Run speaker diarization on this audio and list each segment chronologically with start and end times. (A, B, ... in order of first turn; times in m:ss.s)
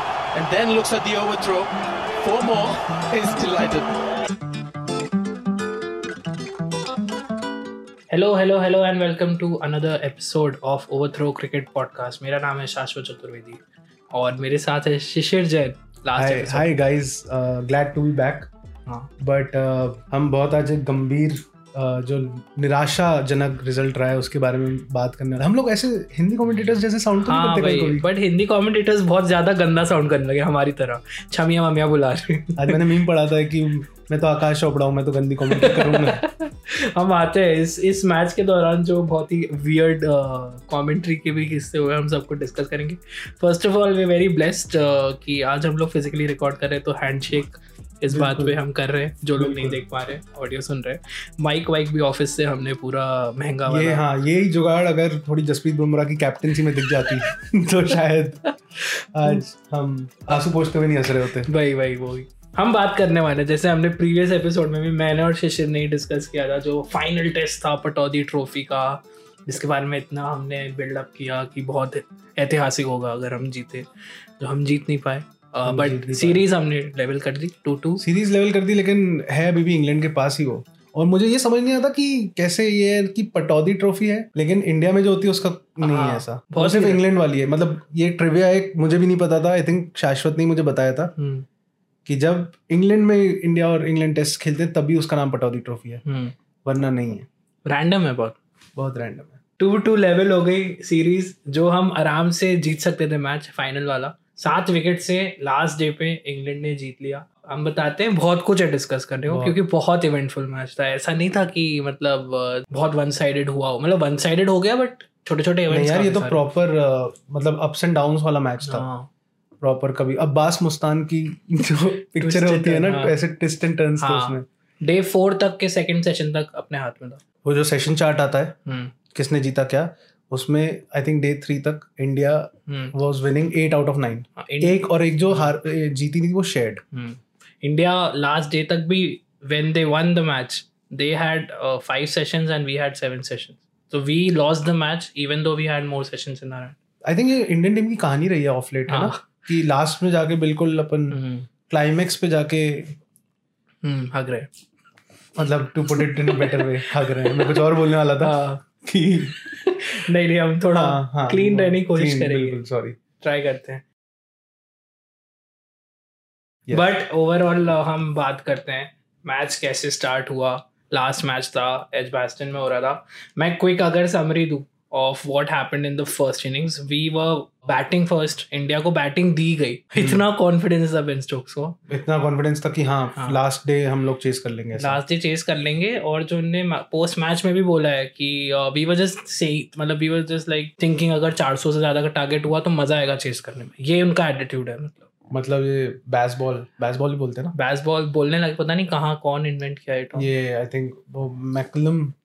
0:00.3-0:04.0 A
0:08.1-0:13.6 B
0:14.1-0:16.7 B
0:16.2-0:18.5 C
0:19.2-0:28.0 C
0:27.2-0:33.0 B
0:32.6-0:36.2 C
0:35.5-0:54.0 B
0:48.1-0:48.6 C
0:49.3-0:49.8 C
0:53.7-1:01.5 C
0:56.9-0:57.2 B
1:01.5-1:13.9 B
1:14.4-1:18.0 B
1:15.6-1:16.4 C
1:18.0-1:31.1 C
1:25.8-1:27.0 B
1:31.2-1:31.4 B
1:32.0-1:36.0 C
1:36.0-1:36.3 B
1:36.6-1:37.2 C
1:37.7-1:38.4 B
1:38.8-1:39.4 C
1:39.6-1:56.4 B
1:49.2-1:49.6 C
1:55.7-1:58.9 C
1:58.6-1:59.1 B
1:59.6-2:04.4 C
2:02.2-2:03.1 B
2:04.0-2:07.2 B
2:07.4-2:08.5 C
2:08.7-2:08.9 B
2:09.1-2:16.8 C
2:12.7-2:12.9 B
2:14.4-2:15.5 B
2:16.9-2:26.8 B
2:27.0-2:31.2 C
2:28.9-2:29.2 B
2:31.1-2:31.5 B
2:31.7-2:33.0 C
2:33.8-2:34.5 B
2:35.4-2:39.4 C
2:36.0-2:38.6 B
2:39.4-2:42.6 B
2:40.7-2:43.0 C
2:43.2-2:43.8 B
2:46.7-3:01.8 B
3:00.0-3:00.2 C
3:01.9-3:05.0 C
3:04.8-3:15.1 B
3:15.3-3:17.5 C
3:17.5-3:20.3 B
3:20.1-3:22.1 C